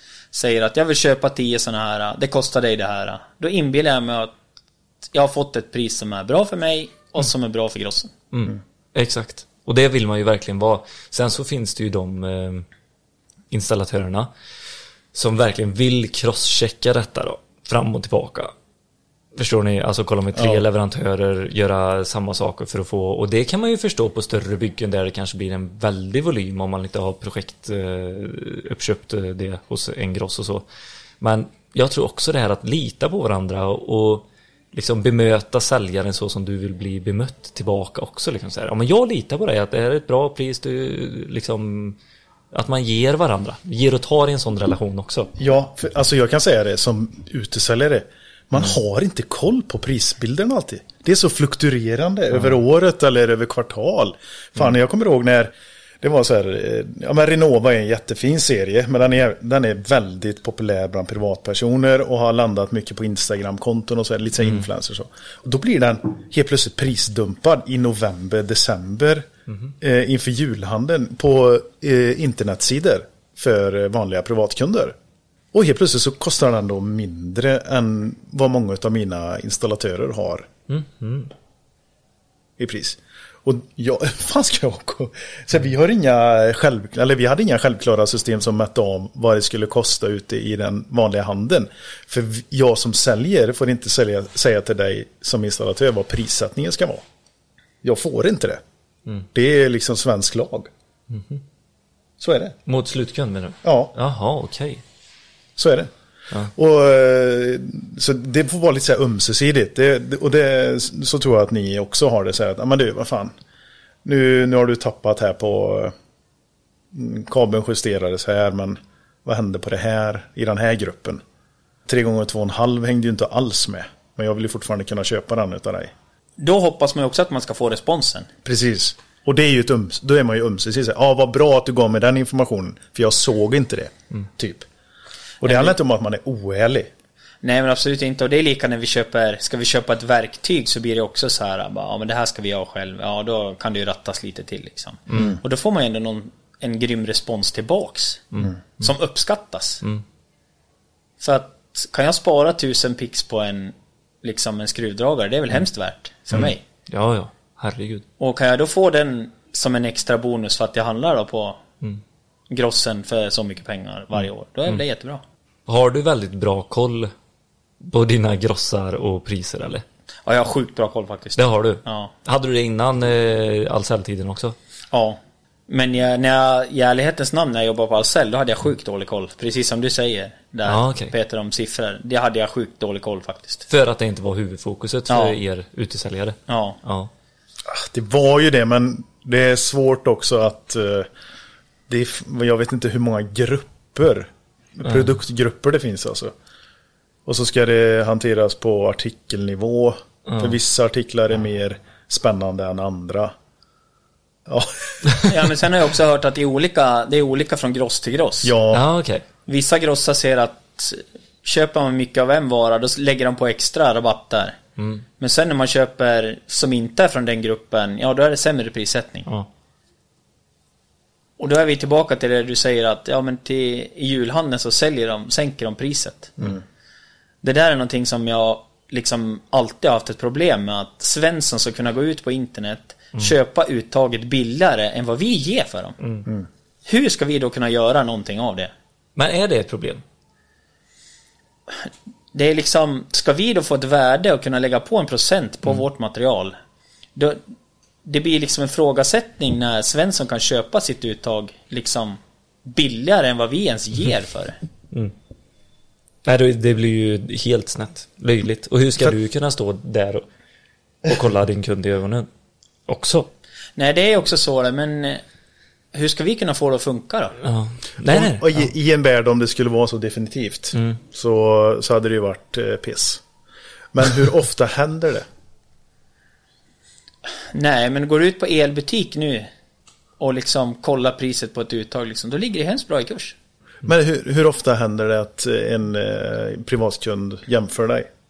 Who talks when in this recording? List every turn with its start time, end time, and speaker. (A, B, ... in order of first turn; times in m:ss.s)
0:00.3-0:04.3 A
0:05.1-0:08.1 A
0:08.3-0:12.7 B
0:13.5-0:14.3 B
0:15.1-0:18.5 B
0:19.3-0:30.6 B
0:20.4-0:20.6 C
0:31.2-0:42.0 B
0:42.5-0:45.3 B
0:45.4-1:09.3 C
1:09.8-1:14.9 C
1:15.5-1:20.5 C
1:20.7-1:21.3 B
1:22.6-1:37.0 C
1:37.8-1:38.6 C
1:39.3-1:40.7 C
1:41.1-1:41.4 B
1:42.2-1:42.6 C
1:42.6-1:44.8 B
1:43.6-1:43.9 C
1:45.6-1:45.9 C
1:46.5-1:53.3 C
1:54.0-1:55.9 C
1:56.9-2:01.2 C
2:01.9-2:05.9 C
2:06.4-2:08.3 A
2:08.4-2:14.7 C
2:15.4-2:16.9 C
2:15.4-2:15.7 A
2:17.4-2:29.8 A
2:31.2-2:36.6 A
2:36.3-2:38.0 B
2:38.2-2:41.6 A
2:42.5-2:45.2 A
2:45.7-2:47.1 B
2:47.8-2:49.8 B
2:50.2-2:52.1 A
2:51.4-2:54.6 B
2:54.9-3:03.6 A
3:00.6-3:01.1 B
3:03.7-3:07.1 B
3:05.1-3:05.4 A
3:06.5-3:06.8 A
3:07.6-3:11.1 C
3:11.9-3:16.3 C
3:17.2-3:23.3 C
3:20.3-3:20.6 B
3:24.5-3:25.4 C
3:25.3-3:28.5 A
3:28.4-3:28.8 C
3:28.7-3:29.2 B
3:29.5-3:34.6 A
3:34.8-3:35.0 B
3:35.2-3:39.3 A
3:41.4-3:46.5 A
3:47.4-3:56.0 A
3:56.8-3:58.7 A
3:59.2-4:00.0 B
4:01.7-4:06.5 A
4:07.2-4:07.4 A
4:08.0-4:14.6 A
4:16.2-4:20.3 B
4:21.0-4:22.3 B
4:22.9-4:23.3 B
4:23.8-4:25.2 A
4:25.9-4:27.4 A
4:27.4-4:28.7 B
4:28.0-4:33.2 C
4:33.9-4:35.2 C
4:37.5-4:39.5 A
4:40.2-4:43.3 A
4:43.8-4:48.1 C